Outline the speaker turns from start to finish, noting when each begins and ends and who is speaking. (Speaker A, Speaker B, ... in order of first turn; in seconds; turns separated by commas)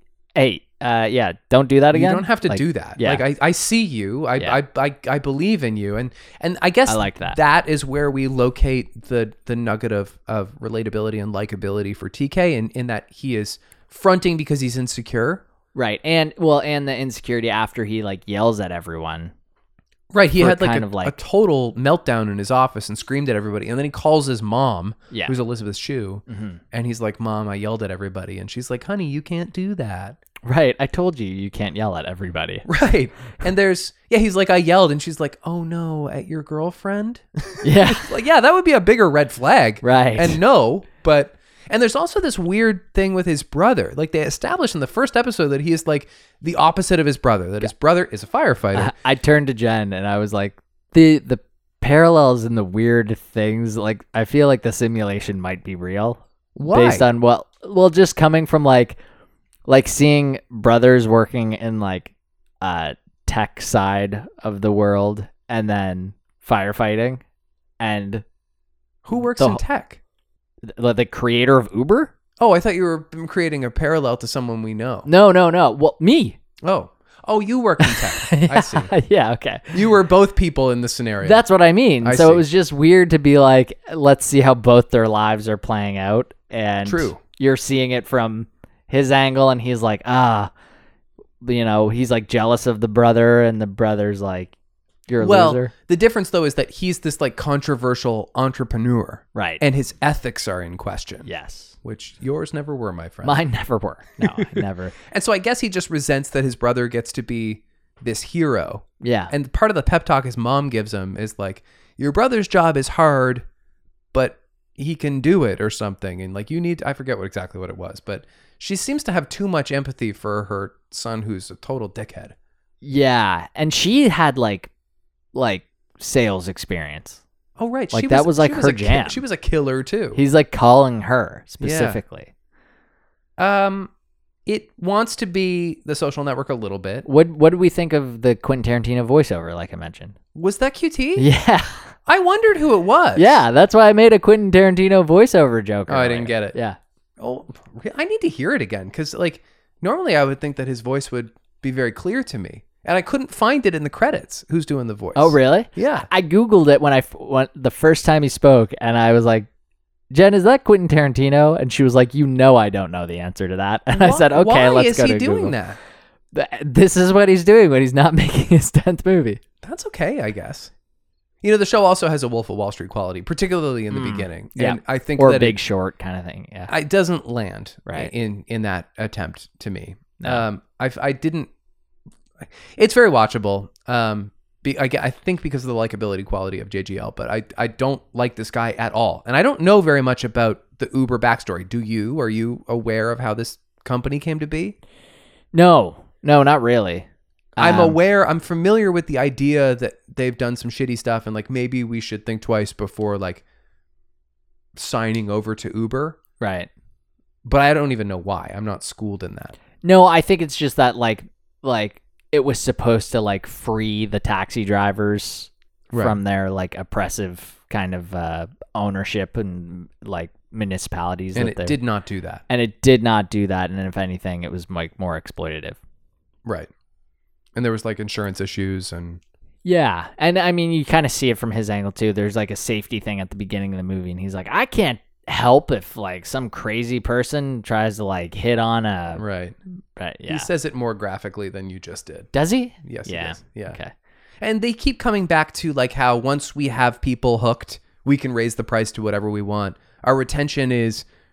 Speaker A: 0.4-3.2, Speaker B: 1.9-15.4, Speaker A: 6.9-7.4, Speaker A: 15.8-19.3, Speaker B: 20.1-30.2, Speaker A: 20.4-21.2, Speaker A: 26.3-26.6, Speaker A: 30.4-32.7, Speaker B: 32.7-48.9, Speaker A: 37.6-38.1, Speaker A: 39.8-40.4, Speaker A: 48.8-59.0, Speaker B: 56.6-57.1, Speaker A: 59.7-67.2, Speaker A: 67.8-68.2, Speaker B: 69.0-70.0, Speaker A: 69.2-69.6, Speaker A: 70.6-72.1, Speaker B: 72.4-75.1, Speaker A: 75.1-76.4, Speaker B: 76.6-78.9, Speaker A: 77.8-79.8, Speaker B: 79.7-81.4, Speaker A: 81.2-90.5, Speaker B: 82.0-82.5, Speaker B: 86.8-87.2, Speaker A: 91.4-94.5, Speaker A: 95.1-95.7, Speaker B: 95.2-101.3, Speaker A: 99.3-99.6, Speaker A: 101.2-101.7, Speaker B: 101.8-103.4, Speaker A: 103.2-105.0, Speaker B: 104.2-113.4, Speaker A: 109.0-109.3, Speaker B: 114.1-122.3, Speaker A: 122.8-124.7, Speaker A: 125.3-127.2, Speaker B: 127.6-130.2, Speaker A: 127.9-129.2, Speaker A: 130.1-132.3, Speaker B: 131.6-132.0, Speaker B: 133.4-133.9, Speaker B: 134.5-137.1, Speaker A: 137.1-140.2, Speaker B: 140.3-141.3, Speaker A: 141.2-141.9, Speaker B: 142.1-143.4, Speaker A: 143.2-146.8, Speaker B: 145.9-146.6, Speaker B: 147.2-156.1, Speaker A: 155.1-159.5, Speaker A: 160.1-165.6, Speaker B: 163.9-165.8, Speaker A: 166.3-169.4, Speaker B: 169.6-170.7, Speaker B: 171.4-175.6, Speaker A: 173.9-176.7, Speaker B: 176.7-181.5, Speaker A: 177.9-178.1, Speaker A: 180.2-180.4, Speaker B: 182.4-194.8, Speaker A: 195.5-198.0, Speaker B: 197.6-203.4, Speaker B: 204.8-206.2, Speaker A: 206.4-206.7, Speaker B: 207.4-209.6, Speaker A: 209.8-221.8, Speaker B: 215.9-216.2, Speaker B: 221.3-222.4, Speaker A: 222.5-225.8, Speaker B: 226.4-226.7, Speaker B: 227.6-229.2, Speaker A: 229.6-239.2, Speaker B: 239.2-239.6, Speaker A: 240.0-240.5, Speaker B: 240.3-242.3, Speaker A: 242.3-243.9, Speaker B: 242.8-243.8, Speaker B: 244.4-251.1